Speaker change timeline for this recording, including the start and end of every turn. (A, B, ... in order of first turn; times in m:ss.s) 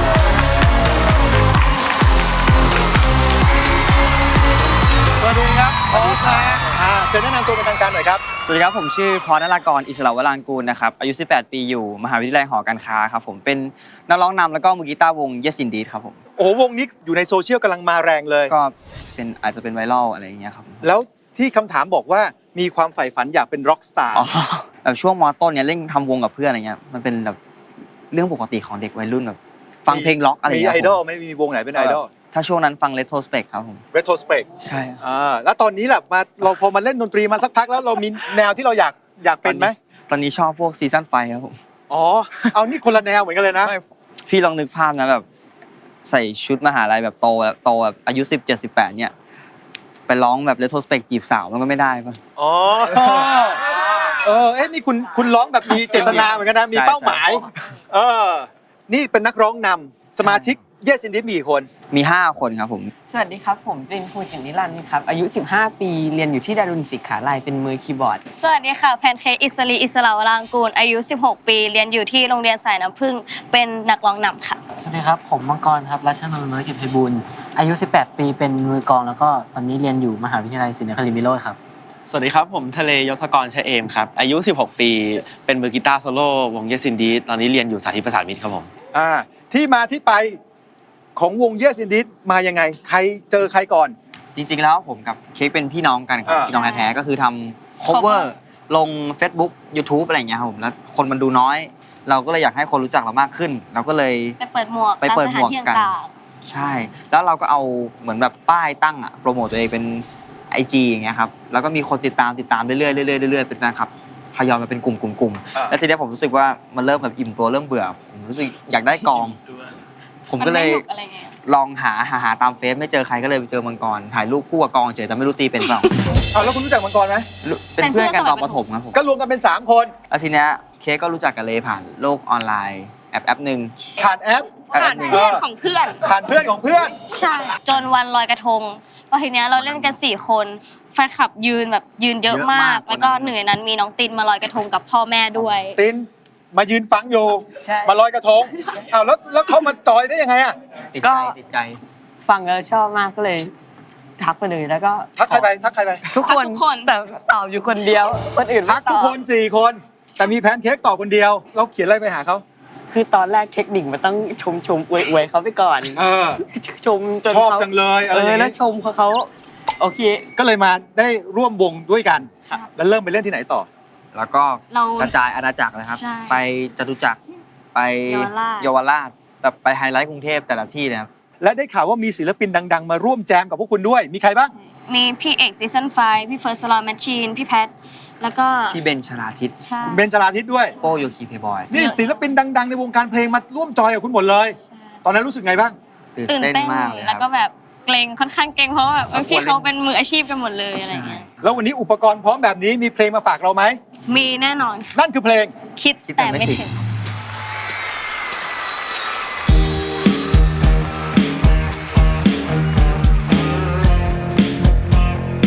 0:05.2-0:08.2 A
0:05.9-0:06.6 B
0:08.4-0:16.2 B
0:16.4-0:18.6 A
0:18.5-0:20.9 B
0:20.8-0:24.3 A
0:24.1-0:27.4 B
0:28.1-0:31.0 B
0:29.9-0:32.1 A
0:31.7-0:33.8 B
0:33.9-0:34.5 A
0:34.6-0:35.0 B
0:35.0-0:39.8 A
0:39.4-0:41.6 B
0:41.9-0:43.7 A
0:43.6-0:45.2 B
0:46.0-0:49.1 B
0:50.1-0:52.2 B
0:52.4-0:53.6 A
0:52.9-0:53.3 B
0:54.1-1:01.7 A
0:55.7-0:57.6 B
1:00.2-1:00.6 B
1:01.9-1:02.9 B
1:03.1-1:08.2 C
1:08.3-1:14.6 D
1:14.8-1:21.6 E
1:22.1-1:28.7 F
1:28.9-1:30.4 A
1:31.1-1:33.9 A
1:34.3-1:44.4 B
1:36.2-1:36.5 A
1:36.5-1:37.0 D
1:37.9-1:38.3 D
1:44.4-1:46.1 D
1:45.0-1:45.9 B
1:46.4-1:59.4 B
2:00.3-2:00.8 B
2:00.4-2:01.3 D
2:01.4-2:05.9 B
2:06.3-2:07.3 A
2:07.4-2:09.0 B
2:07.8-2:08.6 D
2:08.9-2:09.9 A
2:10.1-2:13.8 B
2:14.0-2:15.4 A
2:14.7-2:16.0 D
2:14.8-2:15.2 B
2:16.0-2:16.9 A
2:17.0-2:25.8 D
2:19.6-2:20.0 B
2:22.3-2:23.3 B
2:25.8-2:30.5 A
2:27.6-2:28.0 B
2:30.9-2:31.8 B
2:31.0-2:31.3 C
2:32.2-2:33.5 C
2:34.2-2:35.5 C
2:35.2-2:36.0 A
2:36.1-2:39.2 C
2:36.2-2:36.9 D
2:38.6-2:42.4 A
2:42.9-2:50.2 C
2:45.9-2:46.4 A
2:47.3-2:48.6 A
2:50.4-2:53.7 A
2:54.1-2:57.2 B
2:54.7-2:55.1 D
2:55.9-2:56.4 D
2:57.7-3:01.1 B
2:58.1-2:58.7 D
3:01.4-3:04.5 A
3:04.9-3:08.8 D
3:08.7-3:09.5 B
3:09.6-3:10.1 D
3:09.8-3:10.8 A
3:10.8-3:11.7 B
3:11.7-3:15.8 A
3:11.7-3:12.0 D
3:16.2-3:17.2 B
3:16.3-3:21.3 D
3:19.1-3:19.7 B
3:20.8-3:21.5 B
3:21.4-3:23.8 A
3:24.1-3:24.9 D
3:24.9-3:25.5 A
3:25.8-3:26.8 D
3:26.1-3:26.7 B